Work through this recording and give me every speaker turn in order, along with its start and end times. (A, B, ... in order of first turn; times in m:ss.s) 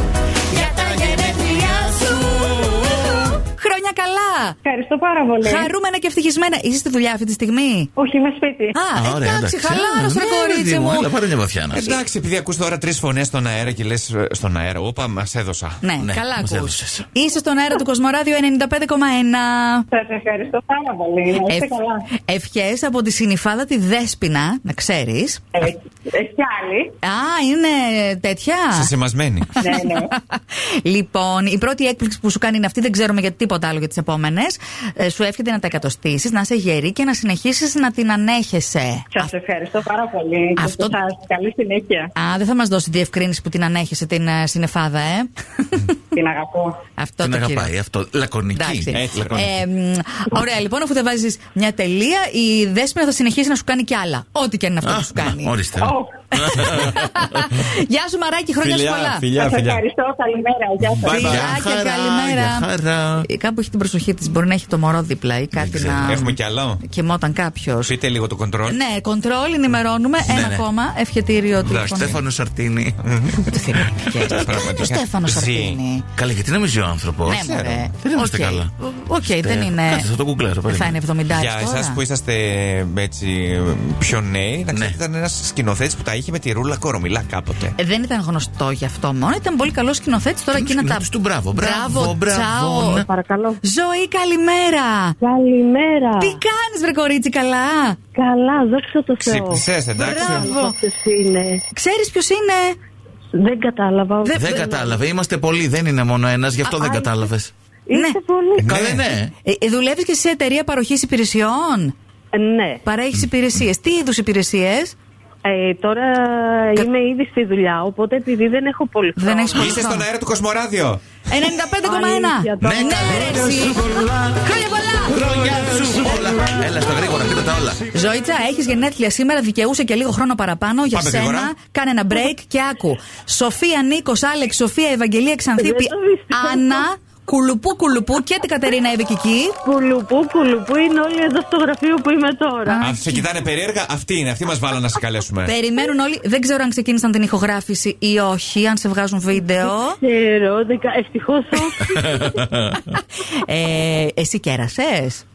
0:00.5-0:04.6 A
0:00.5-0:03.2 B
0:04.6-0:05.7 C
0:05.4-0:07.9 A
0:08.0-0:08.8 C
0:08.8-0:11.1 A
0:09.0-0:12.0 B
0:11.7-0:15.8 D
0:15.8-0:19.9 A
0:16.0-0:17.1 B
0:19.9-0:22.1 C
0:21.5-0:25.6 A
0:25.5-0:27.0 C
0:27.0-0:28.9 A
0:28.7-0:29.7 D
0:29.6-0:39.3 A
0:29.6-0:30.2 C
0:39.1-0:42.1 C
0:40.6-0:41.0 A
0:42.2-0:45.3 A
0:46.1-0:46.8 C
0:47.0-0:47.7 A
0:47.2-0:49.1 B
0:48.5-0:55.5 A
0:48.9-0:49.6 D
0:54.8-0:57.3 B
0:55.8-0:56.1 C
0:56.6-0:59.3 A
0:58.6-0:59.8 D
0:59.3-1:01.4 C
1:00.9-1:01.6 D
1:01.1-1:02.7 A
1:01.1-1:03.3 B
1:03.2-1:06.3 A
1:05.5-1:06.4 B
1:06.1-1:06.8 D
1:06.8-1:08.0 A
1:07.9-1:08.8 D
1:08.7-1:12.2 A
1:10.2-1:10.6 B
1:11.7-1:12.2 D
1:11.9-1:14.6 B
1:13.0-1:13.6 D
1:13.5-1:16.1 A
1:14.4-1:15.8 D
1:16.2-1:18.7 B
1:17.3-1:20.1 A
1:17.3-1:17.9 D
1:19.2-1:21.0 B
1:20.7-1:22.0 A
1:21.3-1:27.8 D
1:24.7-1:25.0 B
1:27.8-1:33.1 A
1:30.5-1:33.1 B
1:33.0-1:33.6 E
1:33.6-1:35.2 A
1:35.2-1:36.4 E
1:36.2-1:38.0 A
1:38.2-1:41.6 E
1:39.2-1:40.5 D
1:40.1-1:40.8 A
1:41.7-1:42.8 A
1:43.4-1:45.0 E
1:44.2-1:44.5 A
1:44.4-1:47.5 B
1:46.6-1:47.1 A
1:47.9-1:49.0 E
1:47.9-1:48.2 A
1:48.6-1:49.3 B
1:49.4-1:52.0 A
1:52.3-1:52.8 E
1:52.8-1:55.0 A
1:55.4-1:59.8 E
1:59.2-2:00.1 A
1:59.5-2:01.0 D
2:01.3-2:05.2 A
2:01.8-2:03.6 E
2:02.6-2:03.7 B
2:05.1-2:07.8 B
2:07.9-2:19.6 A
2:10.9-2:11.5 D
2:15.6-2:16.9 E
2:19.6-2:22.8 E
2:22.7-2:23.3 A
2:22.8-2:25.6 D
2:25.5-2:30.0 A
2:29.6-2:32.4 E
2:32.0-2:33.0 B
2:32.9-2:35.2 A